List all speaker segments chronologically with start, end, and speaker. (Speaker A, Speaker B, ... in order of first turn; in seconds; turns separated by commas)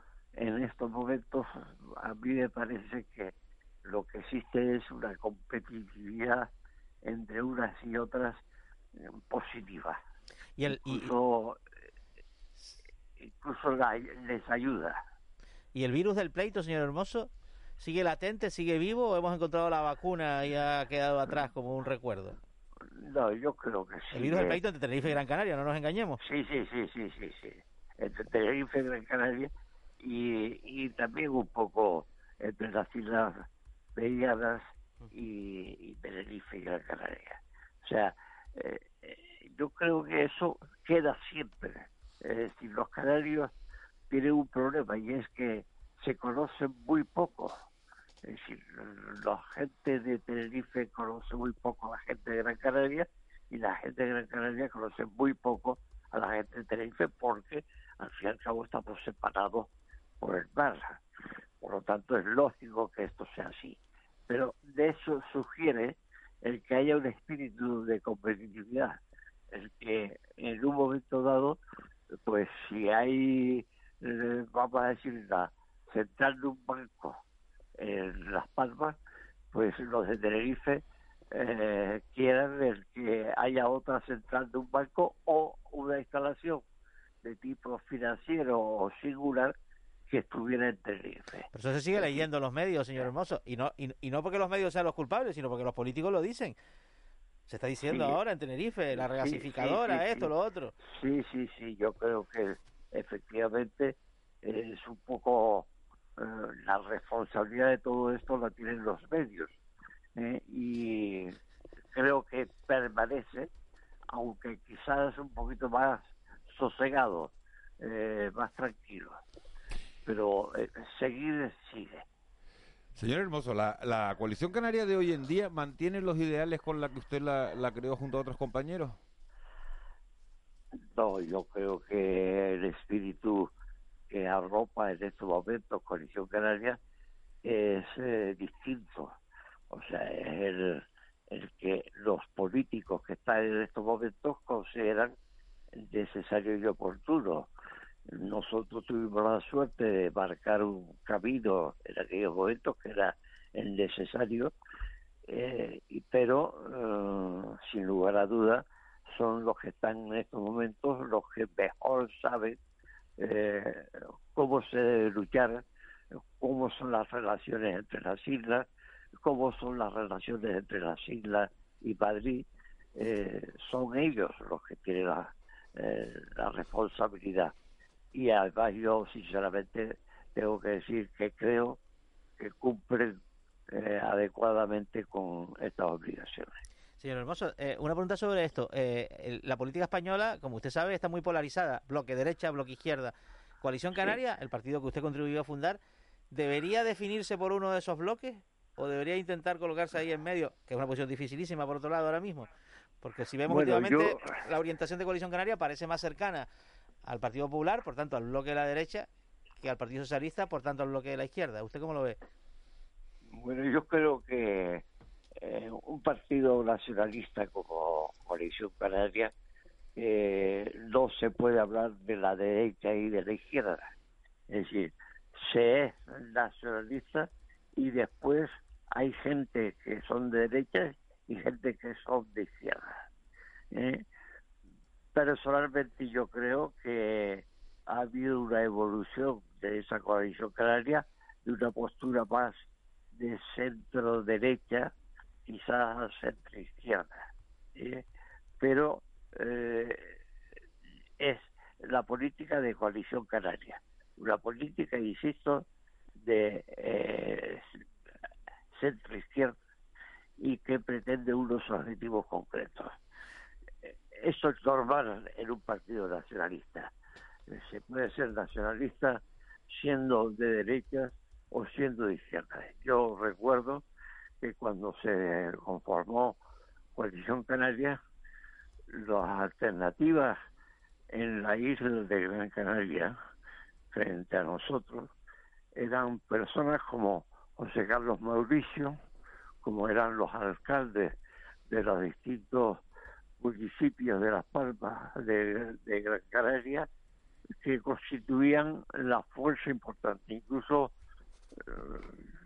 Speaker A: 0.4-6.5, Speaker A: 7.0-8.4, Speaker A: 9.0-10.0, Speaker B: 10.6-11.1, Speaker A: 10.7-11.6, Speaker A: 13.2-15.0, Speaker B: 15.8-22.4, Speaker A: 22.9-24.6, Speaker B: 24.1-26.2, Speaker A: 26.2-29.5, Speaker A: 30.0-33.5, Speaker A: 34.0-43.5, Speaker A: 44.1-47.6, Speaker A: 48.2-59.7, Speaker A: 60.2-61.0, Speaker A: 61.6-63.8, Speaker A: 64.3-69.0, Speaker A: 69.5-71.6, Speaker A: 72.2-77.2, Speaker A: 77.8-79.0, Speaker A: 79.5-86.6, Speaker A: 87.2-89.5, Speaker A: 90.1-92.2, Speaker B: 91.5-96.6, Speaker B: 97.5-100.7, Speaker A: 97.9-98.2, Speaker A: 98.9-109.6, Speaker A: 110.2-111.4, Speaker A: 111.9-113.5, Speaker A: 114.1-119.2, Speaker A: 120.0-122.0, Speaker C: 123.0-129.0, Speaker A: 130.9-133.5, Speaker A: 134.1-136.8, Speaker A: 137.4-139.2, Speaker A: 139.7-145.1, Speaker A: 145.8-147.5, Speaker A: 148.1-154.5, Speaker A: 155.3-162.6, Speaker A: 163.2-165.6, Speaker A: 166.4-168.7, Speaker A: 169.2-177.5, Speaker A: 178.1-181.8, Speaker A: 182.4-183.2, Speaker A: 183.7-186.5, Speaker B: 187.0-195.8, Speaker B: 196.3-202.5, Speaker B: 203.0-206.5, Speaker A: 203.5-204.3, Speaker B: 207.0-209.1, Speaker B: 209.6-212.2, Speaker A: 213.3-214.8, Speaker A: 215.4-219.3, Speaker A: 220.0-223.9, Speaker A: 224.5-233.0, Speaker A: 233.7-234.0, Speaker A: 235.1-242.5, Speaker A: 243.1-244.9, Speaker A: 245.5-248.1, Speaker A: 248.6-250.2, Speaker A: 251.2-255.7, Speaker A: 256.2-257.8, Speaker A: 258.7-259.6, Speaker A: 260.4-263.0, Speaker A: 263.8-266.9, Speaker A: 267.5-273.9, Speaker A: 274.4-276.4, Speaker A: 277.0-278.0, Speaker A: 278.9-280.4, Speaker A: 281.1-283.1, Speaker A: 283.9-285.1, Speaker A: 285.8-289.0, Speaker A: 289.6-291.1, Speaker A: 291.7-292.8, Speaker A: 293.4-296.9, Speaker A: 297.6-300.9, Speaker A: 301.6-302.3